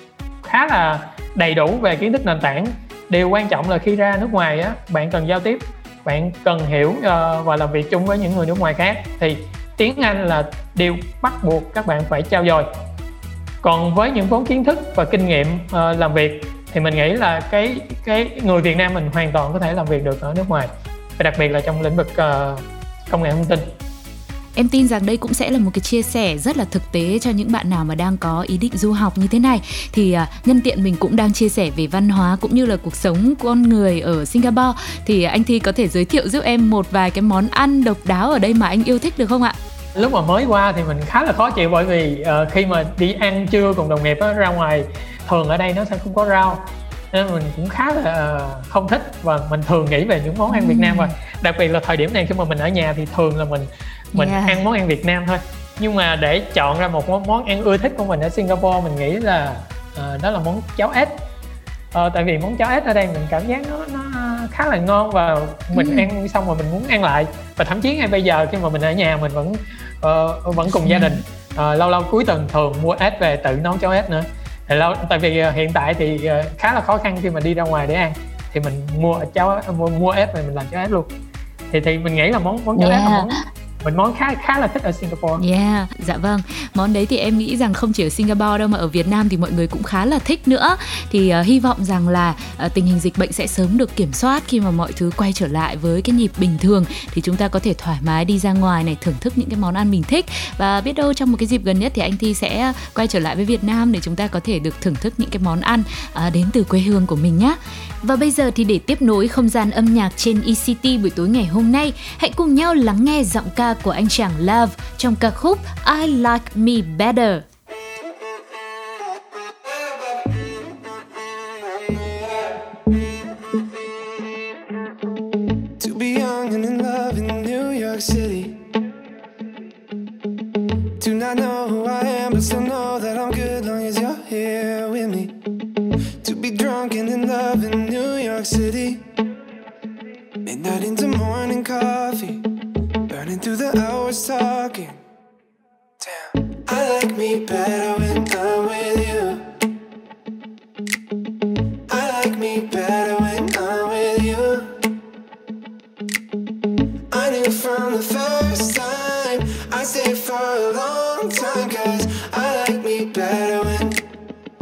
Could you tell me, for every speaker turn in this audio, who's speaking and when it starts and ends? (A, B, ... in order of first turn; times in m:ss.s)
0:00.4-0:12.7 A
0:13.6-0:23.7 A
0:24.6-0:39.6 B
0:40.0-1:01.2 A
0:50.5-0:51.1 B
0:54.1-0:54.6 B
1:01.9-1:21.1 A
1:05.8-1:06.1 B
1:10.7-1:11.2 B
1:21.7-1:25.4 A
1:22.8-1:23.3 B
1:25.4-1:57.5 B
2:05.8-2:08.6 C
2:11.0-2:15.4 C
2:16.2-2:19.1 C
2:20.4-2:22.4 C
2:23.1-2:25.0 C
2:26.0-2:29.4 C
2:31.9-2:34.8 C
2:37.1-2:44.0 C